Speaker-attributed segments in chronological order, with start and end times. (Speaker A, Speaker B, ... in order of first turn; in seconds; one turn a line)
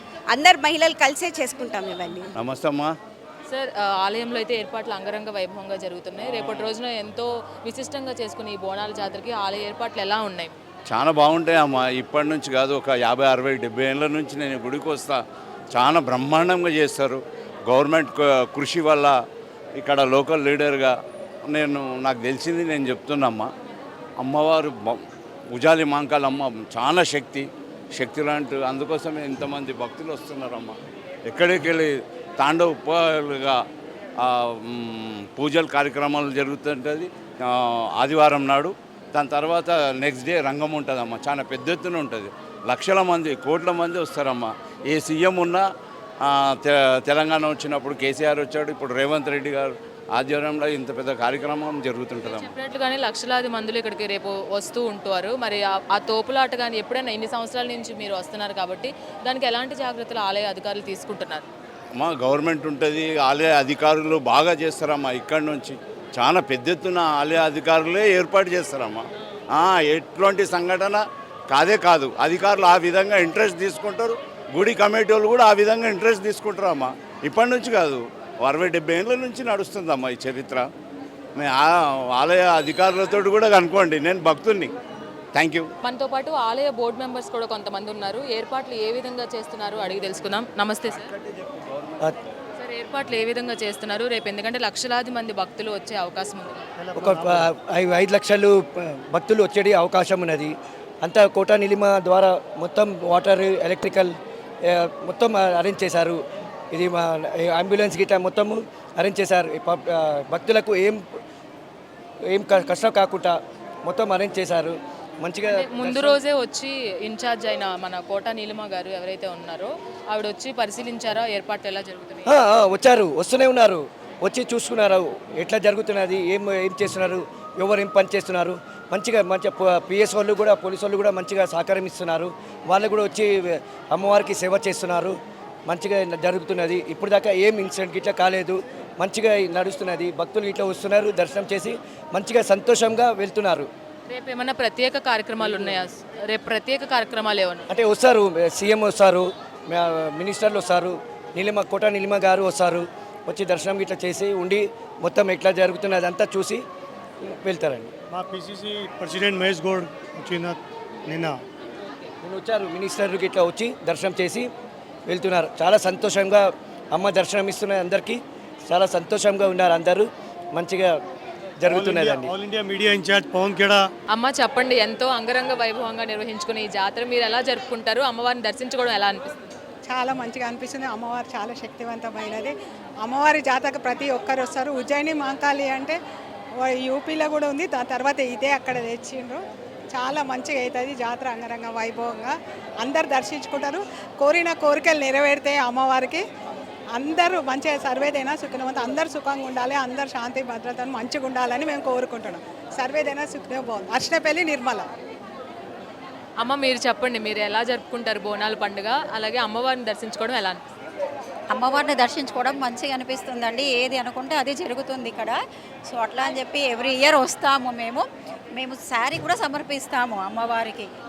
Speaker A: 0.3-2.3
Speaker B: 2.4-3.0
Speaker C: 3.5-10.6
Speaker B: 10.9-15.2
Speaker B: 15.7-19.1
Speaker B: 19.8-20.9
Speaker B: 21.5-23.5
Speaker B: 24.2-25.0
Speaker B: 25.5-33.6
Speaker B: 34.2-45.6
Speaker B: 46.2-52.5
Speaker C: 52.2-61.5
Speaker B: 62.0-80.7
Speaker B: 81.4-84.7
Speaker B: 85.3-85.7
Speaker C: 85.8-91.1
Speaker B: 91.2-92.1
Speaker C: 92.6-96.6
Speaker D: 96.8-97.5
Speaker E: 97.0-104.2
Speaker E: 104.7-106.2
Speaker E: 106.7-111.0
Speaker E: 112.3-116.1
Speaker C: 115.5-122.3
Speaker E: 122.3-143.7
Speaker C: 144.1-147.7
Speaker E: 147.7-156.7
Speaker E: 157.4-157.9
Speaker D: 158.1-161.4
Speaker E: 162.2-164.5
Speaker E: 165.1-171.0
Speaker E: 171.6-172.3
Speaker D: 171.6-173.9
Speaker C: 174.1-179.5
Speaker F: 179.9-186.0
Speaker F: 186.6-196.2
Speaker F: 196.9-204.9
Speaker C: 206.4-210.6
Speaker G: 211.5-220.9